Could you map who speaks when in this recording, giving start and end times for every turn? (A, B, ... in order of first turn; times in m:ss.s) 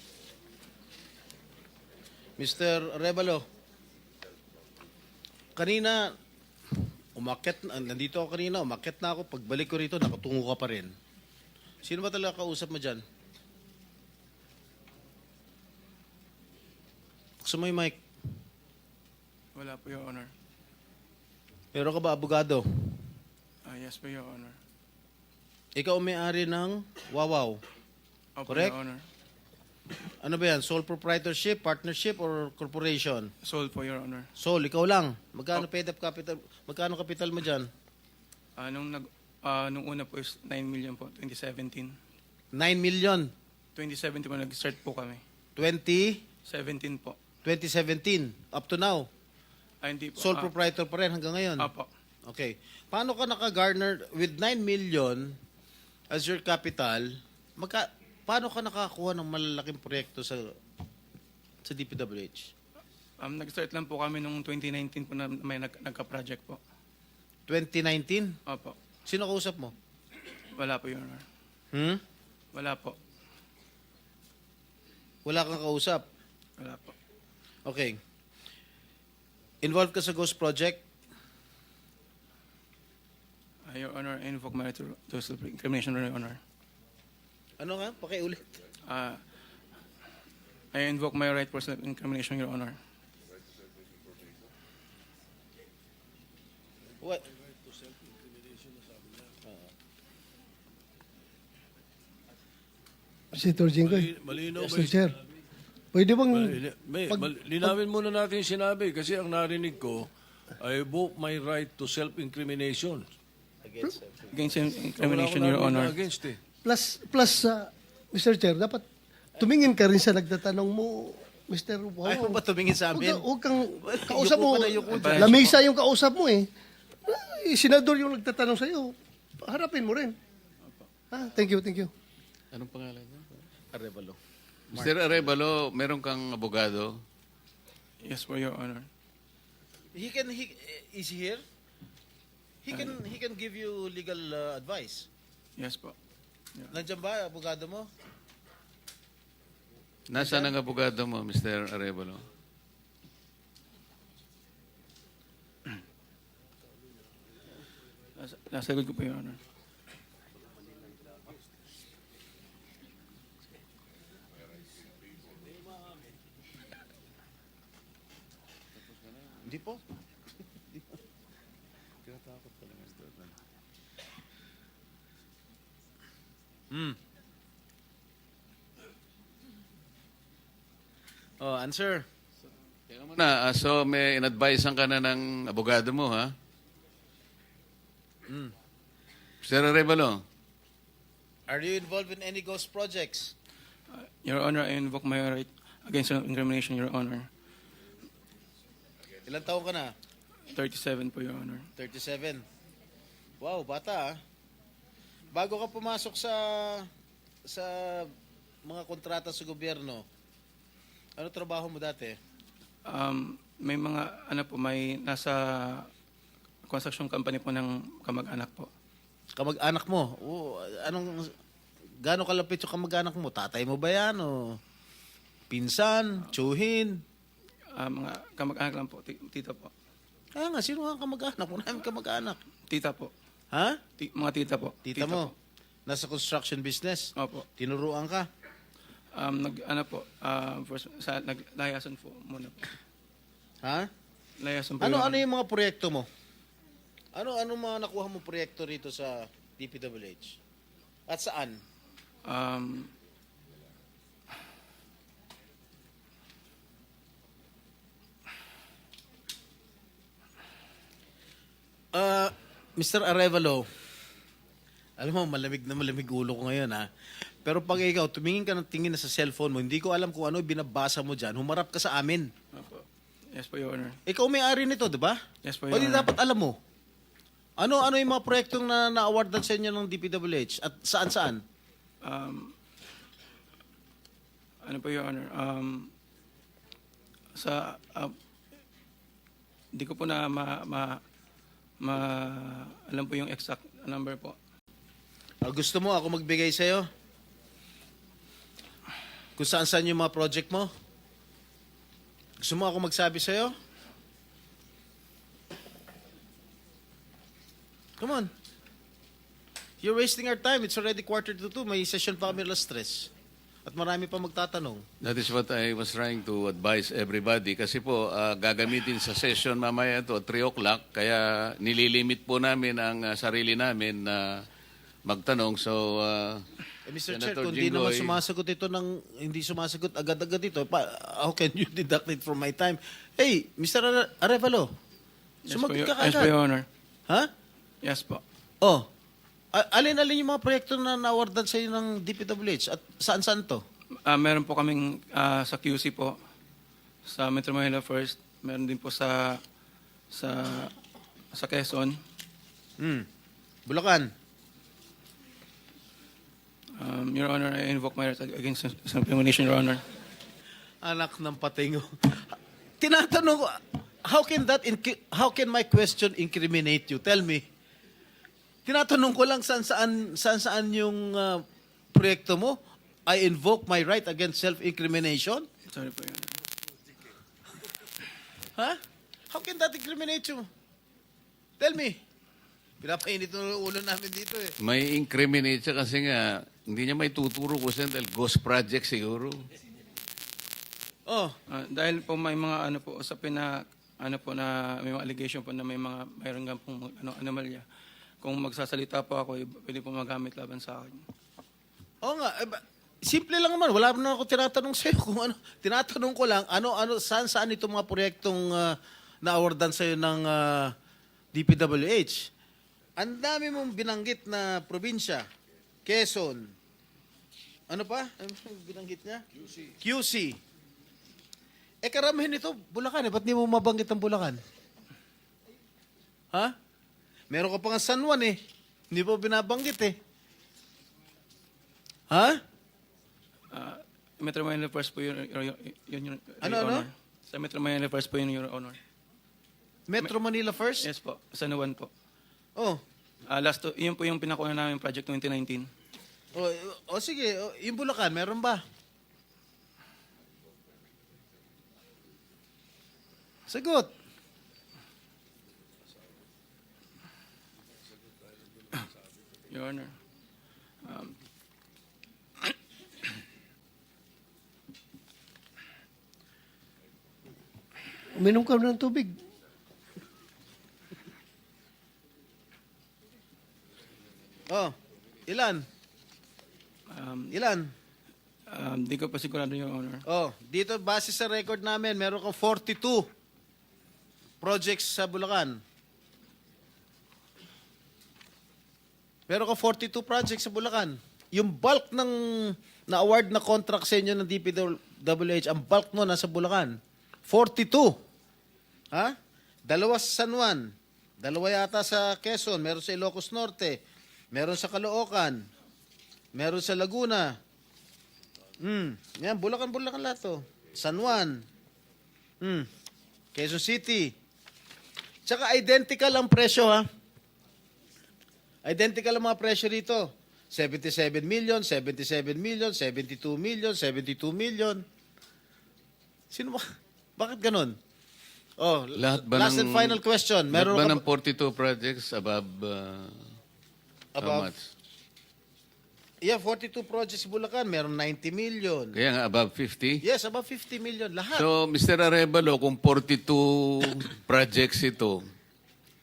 0:02.4-0:03.4 A
0:05.6-0:06.1 A
0:07.2-0:10.9 A
0:11.8-0:13.0 A
0:17.4-0:18.0 A
0:19.6-0:20.3 B
0:21.7-0:23.0 A
0:23.6-0:24.6 B
0:25.8-0:27.6 A
0:28.4-0:29.0 B
0:28.5-0:28.8 A
0:30.2-0:33.3 A
0:33.4-0:34.3 B
0:34.4-0:37.7 A
0:38.6-0:42.0 B
0:42.5-0:43.3 A
0:43.8-0:45.2 B
0:45.6-0:46.2 A
0:46.5-0:47.2 B
0:47.4-0:49.1 A
0:49.8-0:50.5 B
0:50.2-0:51.7 A
0:51.6-0:51.9 B
0:52.3-0:55.4 A
0:56.1-1:00.5 A
1:01.6-1:02.5 A
1:03.2-1:06.6 B
1:07.5-1:08.4 A
1:08.5-1:08.8 B
1:09.0-1:09.7 A
1:10.5-1:11.2 B
1:11.7-1:12.0 A
1:12.5-1:13.0 B
1:15.2-1:16.0 A
1:16.6-1:16.9 B
1:17.6-1:18.0 A
1:19.6-1:20.8 A
1:23.7-1:26.4 B
1:27.6-1:28.4 A
1:28.9-1:29.2 B
1:30.7-1:32.8 B
1:43.3-1:45.1 C
1:43.8-1:45.1 D
1:45.9-1:47.8 C
1:46.3-1:53.1 D
1:53.6-1:54.3 A
1:54.3-1:55.9 B
1:55.0-1:56.4 D
1:56.6-1:58.8 C
1:59.4-2:02.4 C
2:02.0-2:05.4 A
2:02.9-2:06.5 C
2:05.0-2:05.6 B
2:07.1-2:10.1 C
2:11.1-2:11.9 C
2:12.5-2:13.3 E
2:13.7-2:14.2 A
2:14.7-2:15.3 A
2:14.7-2:17.0 E
2:18.0-2:18.9 B
2:19.9-2:21.4 A
2:22.6-2:25.1 A
2:25.6-2:26.0 B
2:26.7-2:27.9 A
2:30.1-2:32.2 E
2:30.1-2:30.5 A
2:38.2-2:39.4 B
2:49.4-2:49.8 A
2:52.1-2:52.9 E
2:56.7-2:57.0 A
3:01.4-3:02.0 A
3:02.9-3:06.3 E
3:09.4-3:10.2 E
3:11.5-3:13.3 A
3:13.9-3:17.3 B
3:19.3-3:19.9 A
3:20.5-3:21.7 B
3:21.8-3:22.4 A
3:23.4-3:24.2 A
3:25.3-3:26.9 A
3:27.5-3:28.1 A
3:28.6-3:30.0 A
3:31.2-3:32.2 A
3:32.9-3:35.9 B
3:36.7-3:38.7 B
3:39.4-3:41.3 A
3:42.0-3:44.6 A
3:45.5-3:47.0 A
3:47.7-3:49.7 B
3:50.4-3:52.4 A
3:52.7-3:53.1 B
3:53.5-3:53.8 A
3:54.0-3:55.3 B
3:54.8-3:55.3 A
3:55.9-3:58.3 A
3:57.2-3:57.5 B
3:59.1-4:02.8 B
4:03.6-4:03.9 A
4:04.4-4:05.2 B
4:04.8-4:06.1 A
4:07.1-4:10.4 A
4:11.1-4:11.6 A
4:12.2-4:12.9 B
4:21.9-4:23.6 A
4:25.0-4:32.3 A
4:32.5-4:34.0 B
4:34.1-4:35.2 A
4:35.4-4:36.1 B
4:35.7-4:36.6 A
4:37.6-4:41.4 A
4:42.0-4:42.5 B
4:44.6-4:45.9 B
4:47.3-4:48.2 B
4:49.7-4:51.0 B
4:51.8-4:54.4 B
4:55.4-4:56.9 A
4:59.4-5:00.7 A
5:02.4-5:03.5 A
5:08.0-5:08.3 A
5:09.8-5:13.1 A
5:13.6-5:14.8 A
5:15.0-5:24.4 E
5:25.0-5:26.4 E
5:26.8-5:34.7 A
5:27.1-5:28.2 E
5:35.4-5:36.7 B
5:35.5-5:36.3 A
5:37.8-5:38.2 B
5:38.6-5:38.9 A
5:39.5-5:43.6 A
5:44.0-5:46.2 B
5:47.0-5:49.4 B
5:50.1-5:50.7 B
5:51.3-5:52.0 B
5:52.8-5:53.0 A
5:53.7-5:54.1 A
5:56.8-5:59.8 B
6:00.8-6:07.4 A
6:08.6-6:15.5 A
6:15.6-6:16.4 B
6:19.3-6:20.5 A
6:21.6-6:22.0 A
6:22.8-6:24.5 A
6:24.6-6:29.4 E
6:31.0-6:31.3 A
6:31.5-6:37.6 B
6:38.2-6:41.0 B
6:42.0-6:50.7 A
6:51.3-6:52.3 A
6:53.0-6:55.2 A
6:55.8-6:56.5 A
6:57.7-6:59.2 A
6:59.8-7:00.4 A
7:01.8-7:04.4 A
7:07.3-7:08.4 A
7:08.9-7:10.0 A
7:12.1-7:12.4 A
7:13.5-7:18.8 B
7:16.4-7:16.9 A
7:19.9-7:20.9 A
7:20.8-7:21.9 B
7:23.3-7:25.7 B
7:26.3-7:28.6 A
7:33.5-7:33.9 A
7:39.5-7:40.0 B
7:40.8-7:41.2 B
7:48.2-7:49.1 C
7:54.5-7:54.7 A
7:55.3-7:55.6 A
7:56.9-7:57.3 B
7:57.3-7:57.7 A
7:58.5-8:00.0 B
8:00.1-8:03.0 A
8:04.4-8:05.6 A
8:09.3-8:16.8 A
8:17.3-8:18.0 A
8:19.7-8:23.8 A
8:24.3-8:25.4 A
8:26.3-8:27.3 A
8:28.6-8:31.4 A
8:32.4-8:32.7 A
8:33.3-8:34.1 A
8:35.2-8:36.8 A
8:38.6-8:44.8 A
8:46.3-8:46.6 A
8:47.2-8:47.8 A
8:48.6-8:51.0 A
8:49.0-8:53.2 E
8:54.2-8:54.5 A
8:54.2-8:54.7 E
8:56.2-8:59.0 A
8:58.9-9:00.0 E
9:00.0-9:01.4 A
9:01.3-9:05.2 E